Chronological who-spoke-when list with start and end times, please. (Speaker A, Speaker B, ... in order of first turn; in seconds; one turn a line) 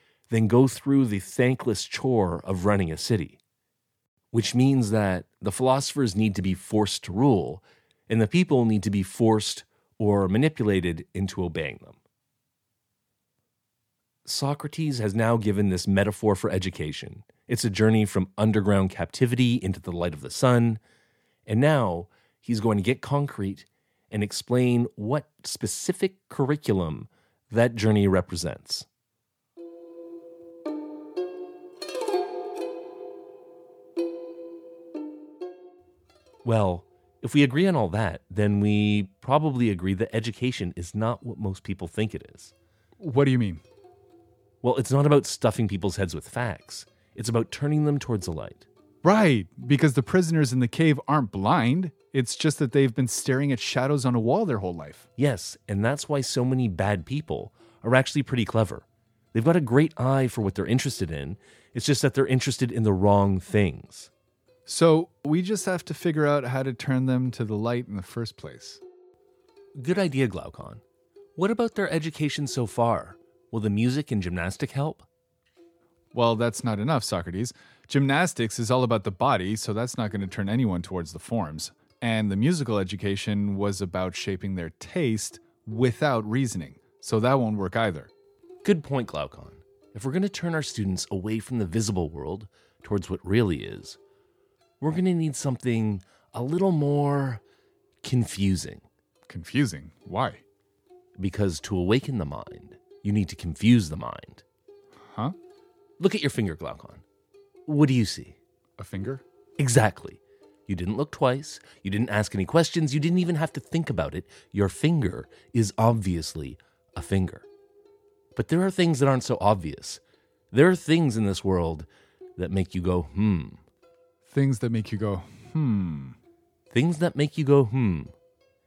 Speaker A: 0.3-3.4
Speaker A: 4.3-12.0
Speaker A: 14.2-20.8
Speaker A: 21.5-28.9
Speaker A: 36.5-42.5
Speaker B: 43.0-43.6
Speaker A: 44.6-48.7
Speaker B: 49.0-55.0
Speaker A: 55.2-64.1
Speaker B: 64.7-68.8
Speaker A: 69.8-70.8
Speaker A: 71.4-75.1
Speaker B: 76.1-88.1
Speaker A: 88.6-94.0
Speaker A: 94.8-97.4
Speaker A: 98.0-98.8
Speaker B: 99.3-100.4
Speaker A: 101.2-104.4
Speaker B: 105.0-105.4
Speaker A: 106.0-107.0
Speaker A: 107.7-108.4
Speaker B: 108.8-109.2
Speaker A: 109.6-117.5
Speaker A: 118.4-120.0
Speaker A: 120.5-123.6
Speaker B: 124.3-126.2
Speaker A: 126.7-128.1